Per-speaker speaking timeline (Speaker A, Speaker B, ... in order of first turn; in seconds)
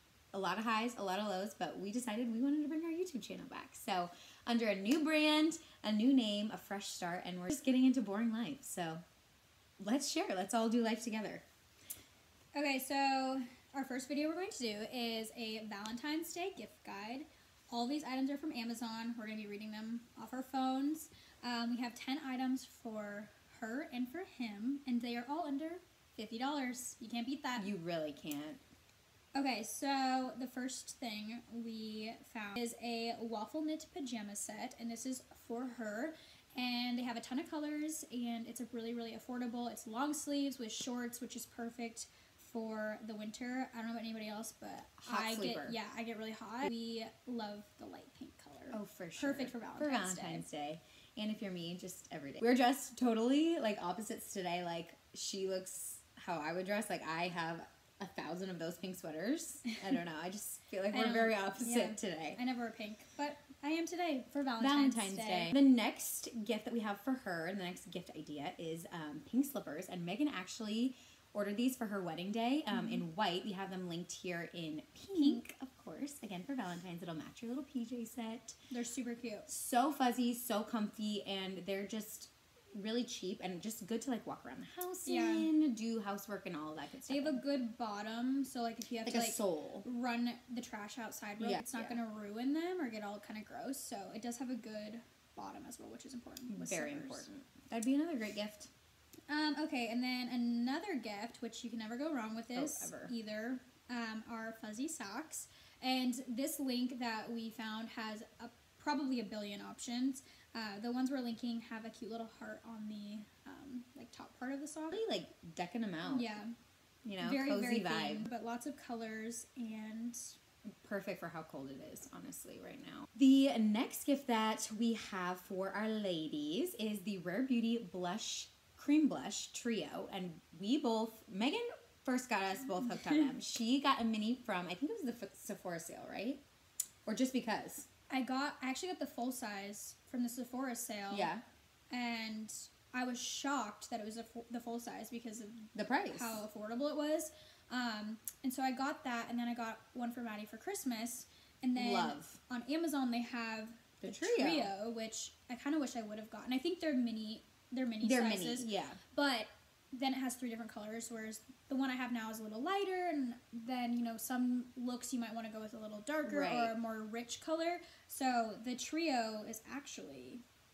Speaker A: 0.3-9.0, 9.8-11.4, 27.6-28.6, 45.0-45.8, 48.7-62.4, 64.6-78.5, 79.5-87.4, 89.0-89.8, 91.4-92.0, 96.5-98.7, 102.5-103.1, 114.9-116.3, 117.0-118.3, 120.8-136.4, 137.0-137.9, 141.1-141.4, 145.7-146.4, 151.8-152.4, 154.0-154.7, 158.0-159.0, 166.2-166.7
Speaker B: 12.5-27.7, 29.3-50.4, 60.9-65.5, 72.7-73.0, 75.1-75.4, 78.7-79.5, 85.0-85.5, 87.1-97.3, 99.3-115.0, 116.0-116.5, 117.2-120.3, 132.9-133.3, 138.1-141.3, 141.9-170.4